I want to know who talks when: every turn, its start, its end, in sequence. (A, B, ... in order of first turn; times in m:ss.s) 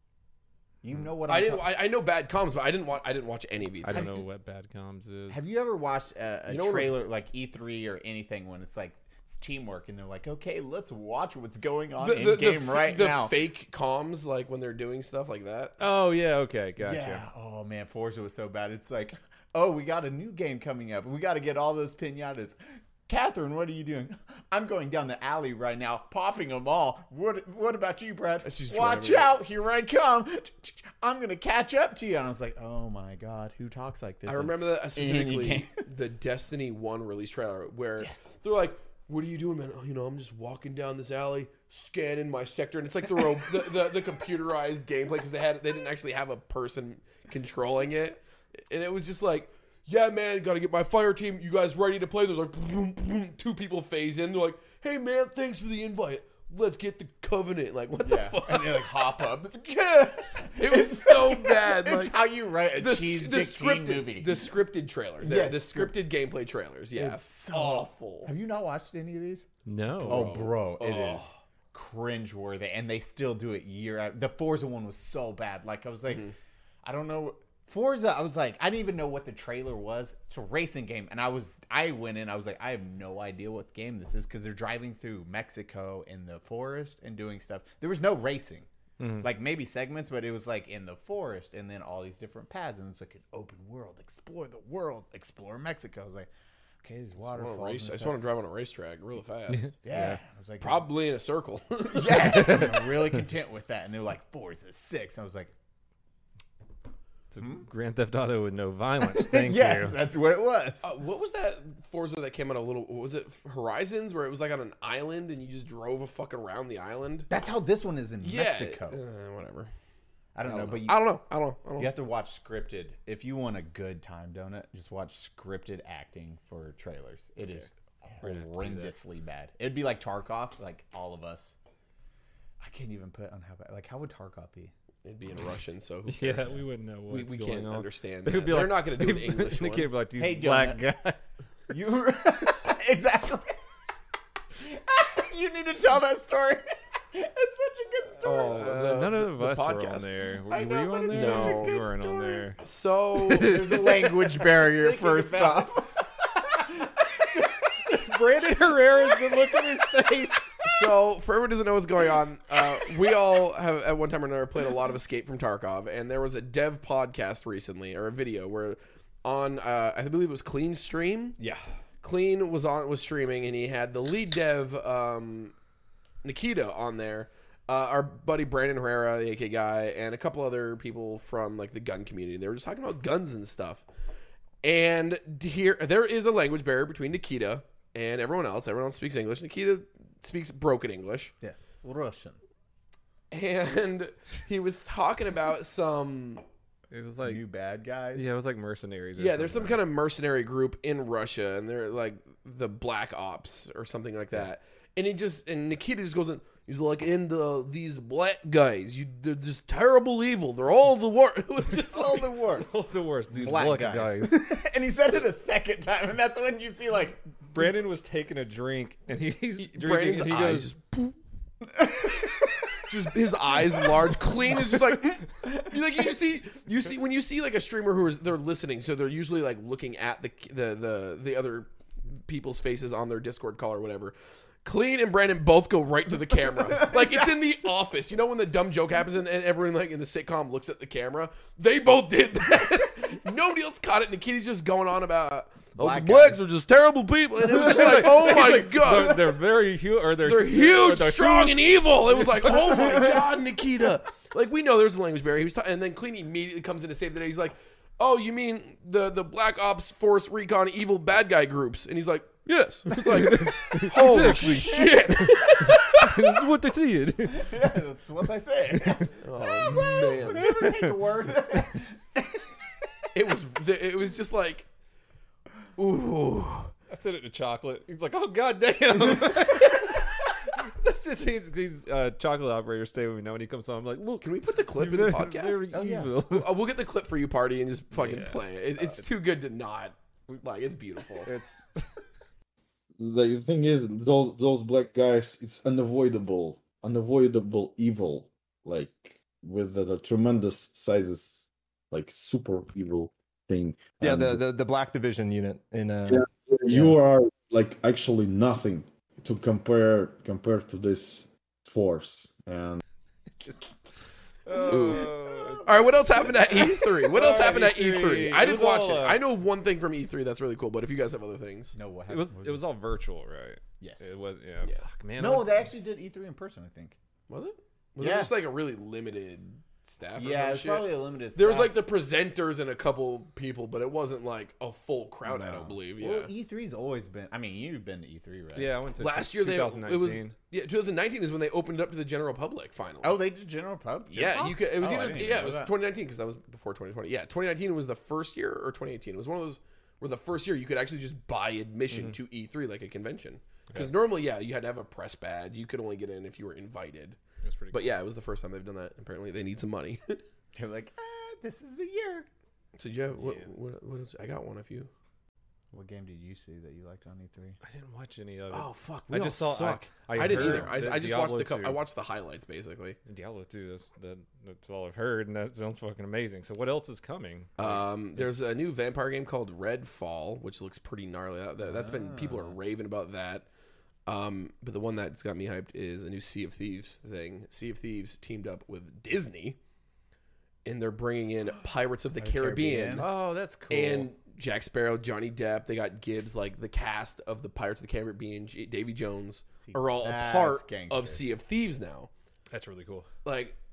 0:00.8-0:01.7 A
0:01.2-0:04.1 B
0:03.8-0:05.4 C
0:05.3-0:13.4 A
0:06.5-0:07.0 B
0:12.0-0:15.7 B
0:15.8-0:17.2 C
0:16.8-0:35.8 A
0:28.4-0:29.4 B
0:34.2-0:58.9 B
0:38.0-0:38.3 A
0:58.0-1:04.4 A
1:00.6-1:02.2 B
1:02.7-1:08.3 B
1:05.2-1:06.0 A
1:06.9-1:09.5 A
1:09.6-1:10.4 C
1:10.0-1:16.3 A
1:10.0-1:11.4 B
1:16.1-1:16.3 B
1:16.8-1:28.7 A
1:29.0-1:29.3 C
1:29.2-1:36.3 A
1:36.8-1:38.2 A
1:37.2-1:39.8 B
1:39.8-1:40.2 C
1:39.8-1:40.8 A
1:40.6-1:42.6 B
1:41.9-1:45.5 A
1:42.2-1:43.0 C
1:47.3-1:50.0 C
1:49.0-1:50.9 A
1:50.8-1:57.3 B
1:57.3-1:59.0 A
1:58.2-1:59.7 B
2:00.3-2:01.0 A
2:00.4-2:01.9 B
2:01.8-2:11.5 A
2:08.2-2:08.9 C
2:12.6-2:14.7 A
2:15.0-2:16.6 B
2:16.1-2:21.2 C
2:17.1-2:19.9 B
2:20.1-2:21.0 A
2:21.7-2:23.5 A
2:24.6-2:28.7 A
2:28.2-2:30.1 B
2:28.4-2:32.6 C
2:30.5-2:32.5 A
2:31.1-2:31.8 B
2:32.6-2:33.6 B
2:33.3-2:35.8 C
2:33.3-2:37.9 A
2:37.8-2:40.6 C
2:40.6-2:51.4 B
2:51.4-2:51.6 A
2:52.0-2:55.5 B
2:56.2-3:03.8 B
3:04.6-3:11.3 B
3:11.4-3:12.4 A
3:13.3-3:16.4 B
3:16.9-3:17.4 C
3:17.2-3:18.3 A
3:18.1-3:19.8 C
3:19.2-3:32.2 B
3:31.9-3:32.7 A
3:32.5-3:34.5 C
3:33.3-3:37.8 A
3:37.5-3:40.8 C
3:39.6-3:41.2 B
3:41.7-3:42.7 A
3:42.9-4:09.3 B
4:05.8-4:06.4 A
4:07.5-4:13.0 C
4:07.6-4:08.5 A
4:10.2-4:26.1 B
4:12.8-4:13.0 A
4:23.1-4:27.8 C
4:27.3-4:32.5 A
4:28.8-4:29.1 C
4:29.2-4:30.5 B
4:30.3-4:30.9 C
4:33.1-4:34.7 B
4:35.8-4:36.7 B
4:36.9-4:46.6 C
4:44.2-4:45.7 B
4:45.7-4:46.1 A
4:46.2-4:51.3 B
4:47.9-4:49.1 C
4:51.2-4:51.8 C
4:53.0-5:04.4 D
5:04.0-5:06.9 E
5:06.1-5:12.8 D
5:14.4-5:19.2 C
5:14.7-5:15.1 B
5:15.6-5:21.8 B
5:21.7-5:22.6 A
5:22.1-5:25.6 C
5:23.8-5:24.1 A
5:25.2-5:27.0 A
5:27.3-5:36.3 B
5:28.0-5:28.3 A
5:30.2-5:31.8 A
5:35.2-5:38.7 A
5:38.5-5:40.3 C
5:39.0-5:43.2 B
5:43.0-5:45.7 A
5:44.1-5:57.2 B
5:57.4-5:58.0 C
5:57.7-6:00.2 B
6:00.5-6:02.3 A
6:02.8-6:04.9 B
6:03.2-6:03.5 C
6:05.7-6:07.6 A
6:07.6-6:11.8 C
6:08.5-6:13.0 B
6:10.3-6:10.7 A
6:13.0-6:18.3 C
6:17.6-6:23.4 B
6:21.6-6:22.6 A
6:24.1-6:29.6 B
6:30.6-6:33.1 B
6:32.2-6:33.0 A
6:33.0-6:34.1 C
6:33.7-6:42.1 B
6:39.6-6:41.2 A
6:42.5-6:43.1 C
6:43.2-6:43.6 B